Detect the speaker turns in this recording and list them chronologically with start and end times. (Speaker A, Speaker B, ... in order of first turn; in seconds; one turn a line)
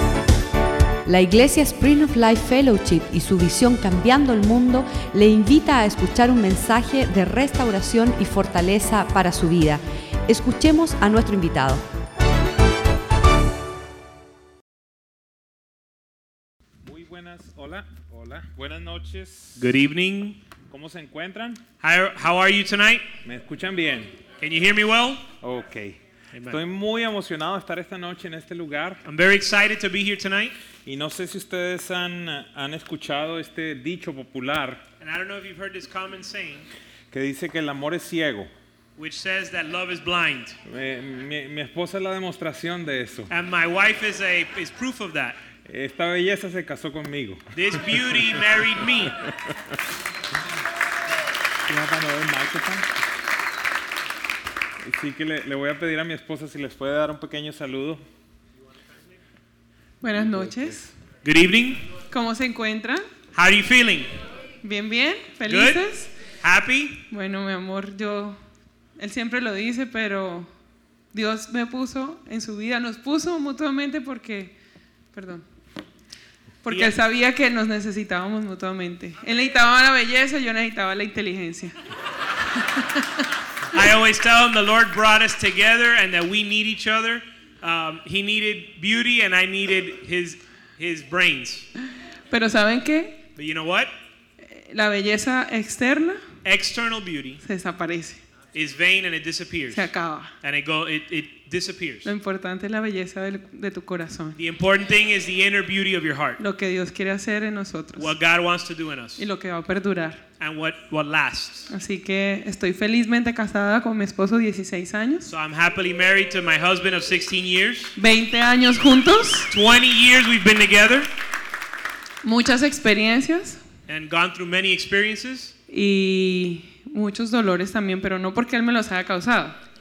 Speaker A: 1.1-11.8
Speaker B: 16.8-19.7
Speaker C: 19.6-20.4
Speaker B: 20.7-21.6
Speaker C: 21.8-23.1
Speaker B: 23.2-24.1
Speaker C: 24.4-25.2
Speaker B: 25.4-26.0
Speaker C: 26.3-26.6
Speaker B: 26.5-29.0
Speaker C: 29.0-30.5
Speaker B: 30.8-34.8
Speaker C: 35.0-36.7
Speaker B: 37.1-38.5
Speaker C: 39.0-40.6
Speaker B: 40.6-43.3
Speaker C: 43.3-45.4
Speaker B: 45.6-48.3
Speaker C: 47.5-49.2
Speaker B: 49.2-49.5
Speaker B: 51.7-52.9
Speaker B: 54.8-58.0
Speaker D: 60.0-60.9
Speaker C: 61.2-61.8
Speaker D: 62.1-63.0
Speaker C: 63.3-64.1
Speaker D: 64.6-66.1
Speaker C: 65.5-65.8
Speaker C: 66.4-67.0
Speaker D: 67.1-68.4
Speaker D: 69.0-70.5
Speaker D: 71.1-74.5
Speaker D: 75.1-75.4
Speaker D: 76.6-81.8
Speaker C: 76.7-76.9
Speaker D: 82.6-83.0
Speaker C: 83.7-91.7
Speaker D: 92.3-93.2
Speaker C: 93.3-93.9
Speaker D: 94.5-96.2
Speaker C: 96.4-97.4
Speaker D: 97.4-98.2
Speaker C: 98.5-99.9
Speaker D: 99.7-100.3
Speaker C: 100.4-102.1
Speaker D: 102.0-104.4
Speaker C: 104.3-106.4
Speaker D: 106.4-108.1
Speaker C: 108.0-109.2
Speaker D: 109.2-110.2
Speaker C: 110.4-111.7
Speaker D: 111.7-115.3
Speaker C: 115.3-118.0
Speaker D: 118.0-119.5
Speaker C: 119.5-121.1
Speaker D: 122.2-123.6
Speaker C: 123.9-125.5
Speaker D: 125.7-129.6